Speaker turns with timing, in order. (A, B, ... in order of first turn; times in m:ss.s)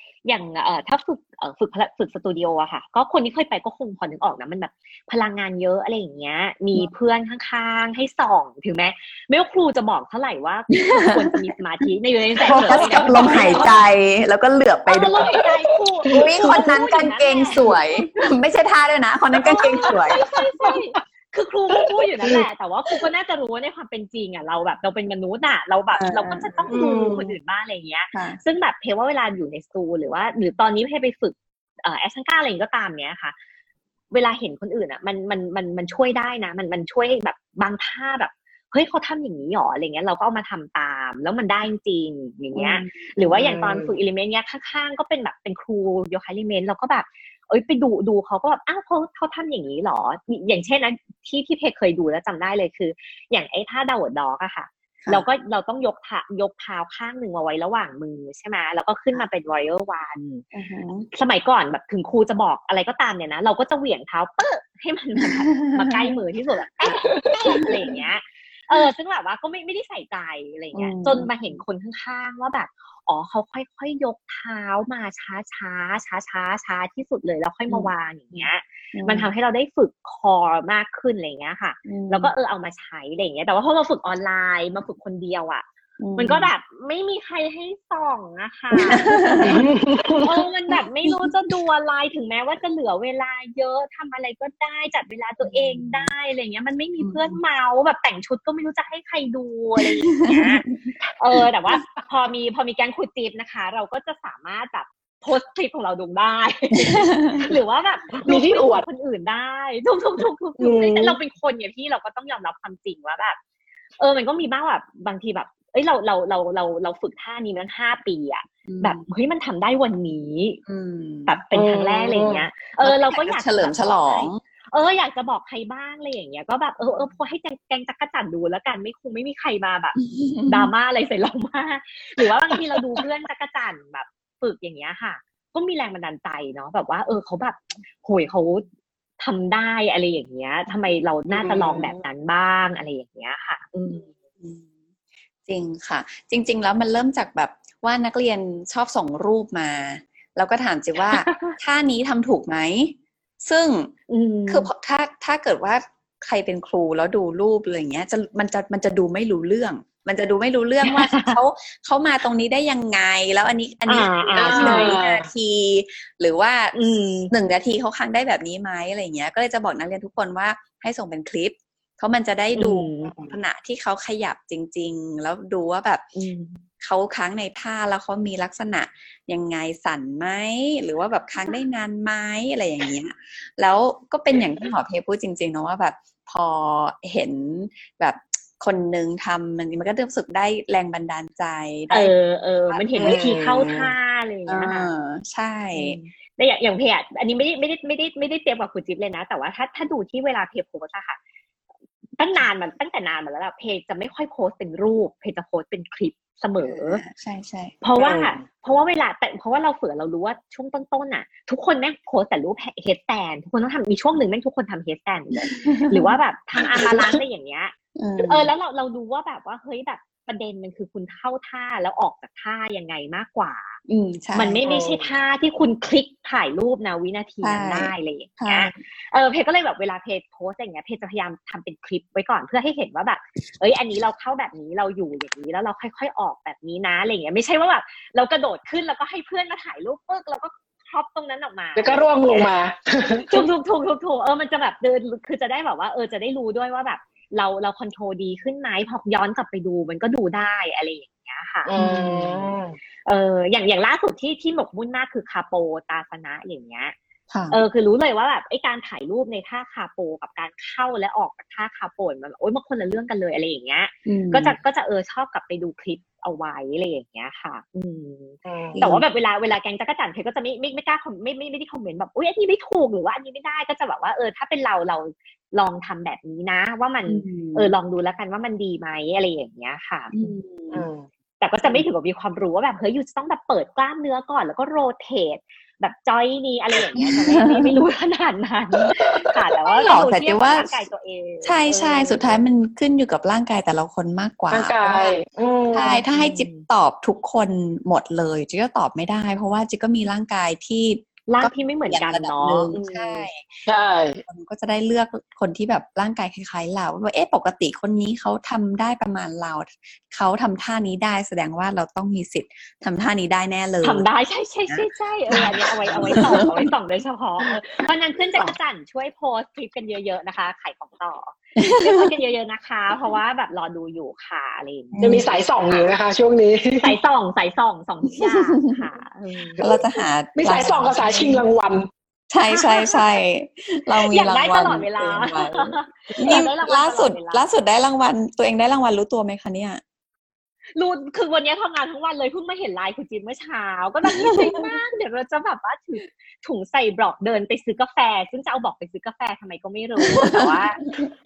0:00.2-0:13.8 A
0:10.8-0:11.3 B
0:12.5-0:13.8 C
0:12.6-0:15.3 B
0:14.9-0:17.7 A
0:15.2-0:16.7 C
0:16.1-0:20.2 B
0:19.4-0:20.8 C
0:19.4-0:33.4 A
0:21.7-0:23.0 C
0:25.9-0:26.7 B
0:26.7-0:27.3 C
0:28.1-0:28.4 B
0:34.1-1:00.4 A
0:42.5-0:43.1 B
0:43.3-0:43.9 C
1:00.5-1:01.1 B
1:01.1-1:29.6 A
1:05.2-1:06.2 B
1:06.8-1:07.7 C
1:10.7-1:11.3 B
1:17.7-1:19.3 B
1:21.8-1:22.3 B
1:26.0-1:26.5 B
1:28.9-1:29.6 B
1:29.5-1:30.3 C
1:30.2-1:40.7 A
1:30.7-1:31.3 B
1:35.4-1:36.1 B
1:37.0-1:37.4 B
1:39.8-1:41.0 B
1:41.2-1:53.4 A
1:46.8-1:47.5 B
1:48.2-1:48.8 C
1:50.6-1:51.2 C
1:54.0-2:00.6 A
1:58.7-1:59.1 B
2:00.7-2:01.4 B
2:01.3-2:18.7 A
2:01.5-2:02.4 C
2:02.8-2:04.4 B
2:10.0-2:10.7 B
2:19.2-2:24.0 A
2:21.3-2:22.0 C
2:24.0-2:24.6 B
2:25.4-2:33.9 B
2:31.1-2:31.6 A
2:34.1-2:34.7 A
2:34.5-2:56.1 B
2:40.8-2:41.4 A
2:43.9-2:45.0 A
2:44.4-2:45.3 C
2:46.7-2:47.3 A
2:52.5-2:53.1 A
2:56.1-2:56.6 A
2:56.8-3:12.1 B
3:11.9-3:14.9 A
3:12.7-3:13.4 B
3:13.0-3:13.9 C
3:14.5-3:16.0 B
3:15.7-3:21.2 A
3:22.2-3:27.0 A
3:26.6-3:27.8 B
3:27.8-3:43.8 A
3:28.0-3:28.4 C
3:35.5-3:36.2 B
3:36.8-3:37.2 C
3:38.0-3:38.5 B
3:43.9-3:44.7 B
3:44.4-4:02.5 A
3:44.6-3:45.1 C
3:47.4-3:48.7 B
4:01.8-4:03.4 C
4:03.3-4:11.7 A
4:11.6-4:12.8 C
4:11.7-4:12.5 B
4:13.0-4:17.0 A
4:17.3-4:17.6 B
4:17.5-4:40.1 A
4:24.1-4:24.6 B
4:28.4-4:28.8 C
4:28.7-4:29.0 B
4:37.1-4:37.7 B
4:40.1-4:40.9 B
4:40.7-4:41.1 C
4:41.4-4:52.4 A
4:47.0-4:47.8 B
4:49.0-4:49.4 C
4:49.7-4:50.7 B
4:51.4-4:55.2 B
4:54.5-4:55.9 C
4:55.7-4:56.7 A
4:55.7-5:03.6 B
5:01.3-5:03.3 A
5:03.6-5:04.2 C
5:04.2-5:14.1 B
5:13.8-5:26.0 A
5:14.7-5:16.7 B
5:15.9-5:16.3 C
5:21.6-5:22.1 B
5:24.9-5:25.3 B
5:25.0-5:27.0 C
5:26.8-5:29.6 A
5:28.2-5:28.8 B
5:29.6-5:31.4 B
5:30.4-5:31.9 C
5:31.0-5:31.4 A
5:32.3-5:39.8 B
5:32.5-5:33.0 A
5:34.0-5:37.4 A
5:40.7-5:50.8 A
5:44.3-5:44.8 B
5:50.2-5:51.1 B